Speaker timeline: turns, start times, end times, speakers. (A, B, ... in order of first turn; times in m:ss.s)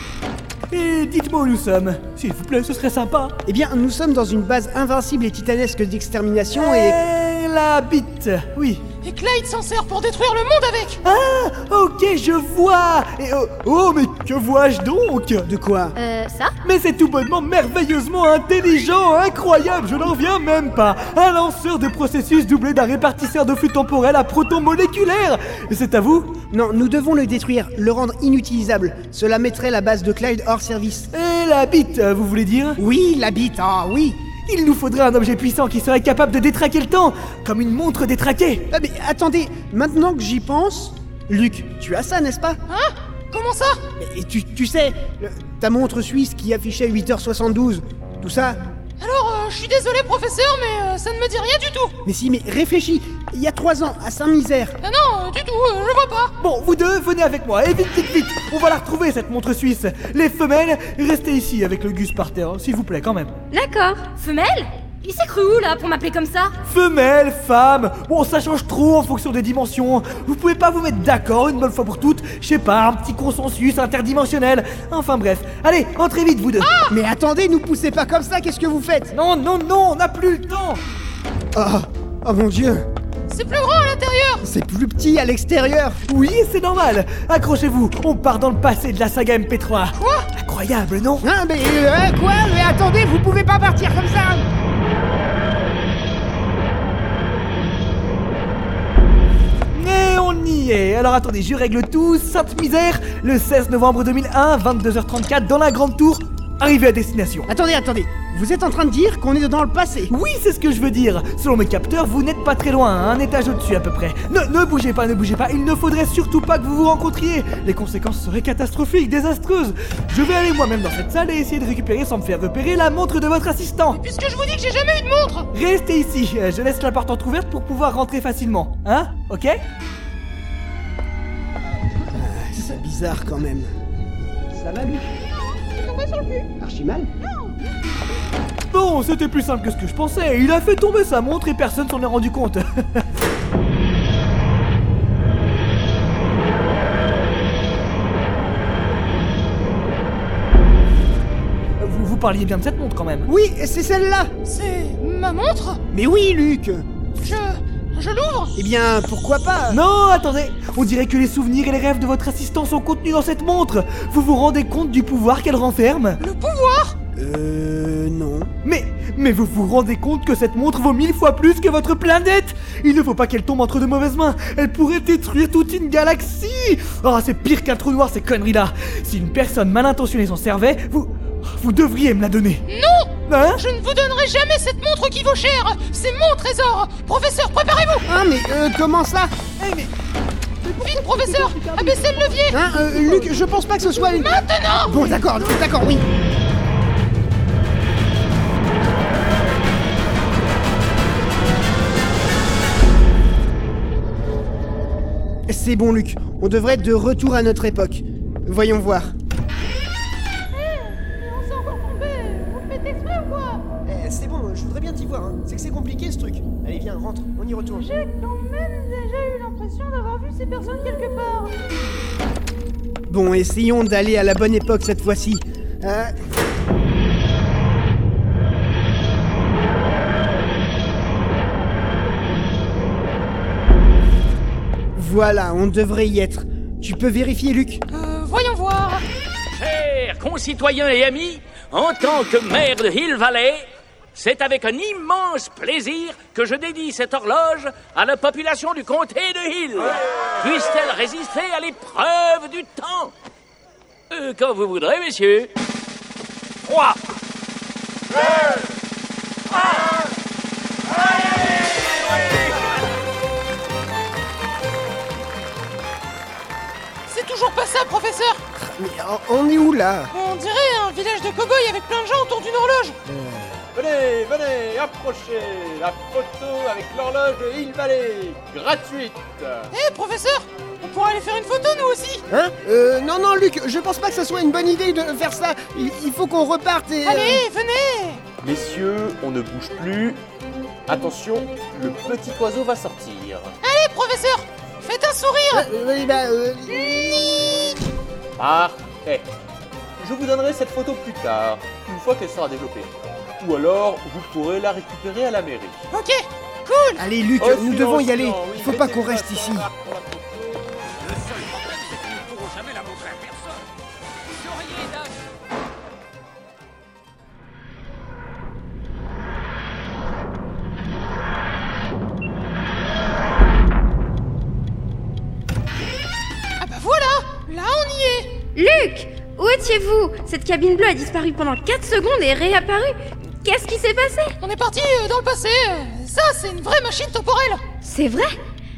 0:00.7-0:03.4 A
0:03.5-0:07.0 B
0:06.6-0:08.8 A
0:09.0-0:11.0 C
0:11.0-0:15.5 A
0:15.4-0:16.0 B
0:16.0-0:16.6 D
0:16.6-0:26.4 A
0:26.5-0:31.1 B
0:31.1-0:32.8 A
0:32.8-0:34.2 B
0:34.5-0:38.7 A
0:38.7-0:42.6 B
0:42.7-0:43.8 C
0:44.0-0:48.6 B
0:49.0-0:51.9 C
0:52.0-0:54.8 B
0:54.8-0:56.3 C
0:56.4-1:03.4 A
1:03.5-1:04.1 E
1:04.2-1:06.6 D
1:06.6-1:16.7 A
1:16.6-1:16.9 C
1:16.9-1:19.1 B
1:19.1-1:20.8 A
1:21.6-1:22.9 B
1:23.3-1:24.4 C
1:24.4-1:26.0 B
1:26.1-1:31.2 A
1:29.9-1:30.3 C
1:31.2-1:34.5 B
1:39.7-1:47.5 A
1:47.5-1:50.1 B
1:50.1-2:04.0 A
2:03.9-2:05.5 C
2:05.5-2:09.6 A
2:12.1-2:13.7 B
2:14.5-2:15.1 B
2:15.5-2:16.5 C
2:16.6-2:17.1 B
2:17.3-2:17.5 C
2:18.7-2:22.8 A
2:31.8-2:33.3 A
2:33.3-2:34.3 B
2:34.4-2:35.8 C
2:35.9-2:36.8 B
2:37.2-2:38.6 C
2:38.6-2:39.8 B
2:39.7-2:46.2 A
2:46.2-2:47.0 C
2:47.2-2:48.5 B
2:48.6-3:02.6 A
3:02.7-3:08.1 C
3:03.3-3:03.6 A
3:08.1-3:09.3 B
3:09.6-3:09.9 A
3:10.6-3:13.4 A
3:10.8-3:12.6 C
3:12.5-3:16.1 B
3:14.0-3:15.1 C
3:25.5-3:29.1 B
3:30.5-3:33.6 C
3:33.8-3:37.9 B
3:37.8-3:41.6 C
3:43.1-3:46.1 B
3:55.0-3:57.8 B
3:57.9-3:59.0 C
3:59.5-4:13.1 F
4:14.1-4:15.5 F
4:16.6-4:17.0 F
4:27.1-4:28.4 C
4:28.6-4:30.1 B
4:30.1-4:33.0 C
4:33.1-4:33.6 B
4:33.8-4:39.7 G
4:39.7-4:42.2 C
4:42.3-4:47.4 B
4:47.0-4:48.2 C
4:48.4-4:50.2 G
4:50.9-4:53.6 G
4:53.6-4:55.7 C
4:55.5-4:57.8 B
4:56.8-4:57.4 C
4:58.4-4:59.3 G
5:00.0-5:05.9 G
5:05.9-5:07.0 C
5:07.0-5:09.7 B
5:07.4-5:10.5 G
5:26.6-5:28.3 C
5:28.6-5:34.4 E
5:34.4-5:37.6 C
5:37.8-5:38.4 E